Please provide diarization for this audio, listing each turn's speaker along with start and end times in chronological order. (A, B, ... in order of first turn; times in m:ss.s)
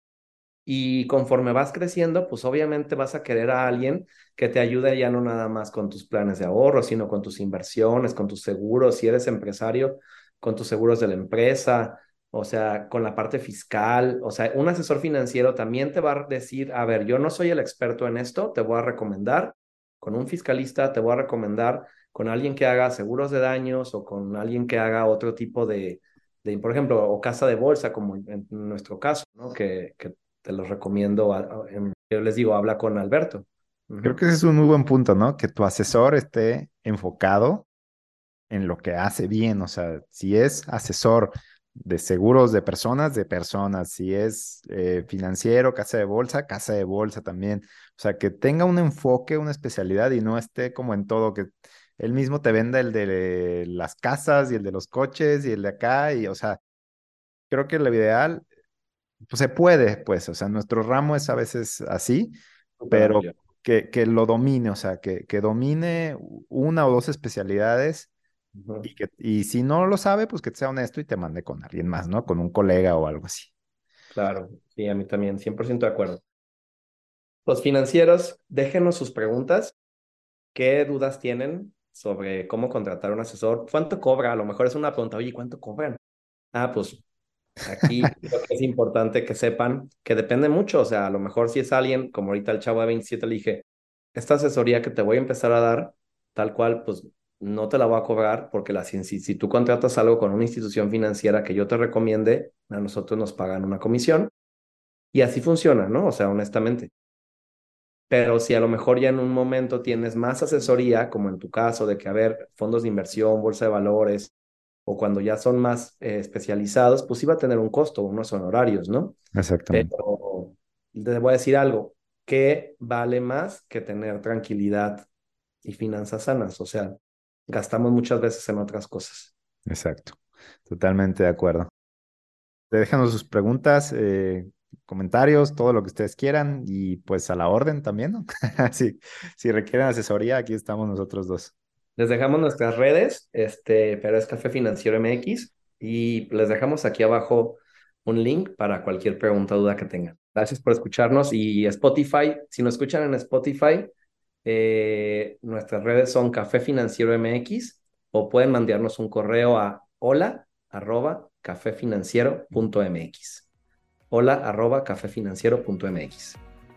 0:00.6-0:34.2 A
0:34.0-0:37.7 B
0:38.5-0:56.6 B
0:57.5-0:58.4 B
0:59.3-1:02.3 B
1:02.8-1:03.3 A
1:02.9-1:08.1 B
1:08.5-1:08.9 A
1:08.8-1:13.5 B
1:14.1-1:16.2 A
1:17.4-1:19.8 A
1:20.5-1:26.0 A
1:26.5-1:27.0 A
1:27.6-1:33.6 A
1:34.1-1:44.3 A
1:45.1-1:46.9 A
1:48.1-1:54.3 A
1:54.8-1:59.1 A
1:59.3-1:59.9 B
1:59.7-2:05.0 A
2:05.6-2:07.0 A
2:07.5-2:09.3 A
2:09.6-2:11.7 B
2:12.7-2:21.5 B
2:22.0-2:33.9 A
2:34.4-2:43.5 A
2:44.1-2:46.4 A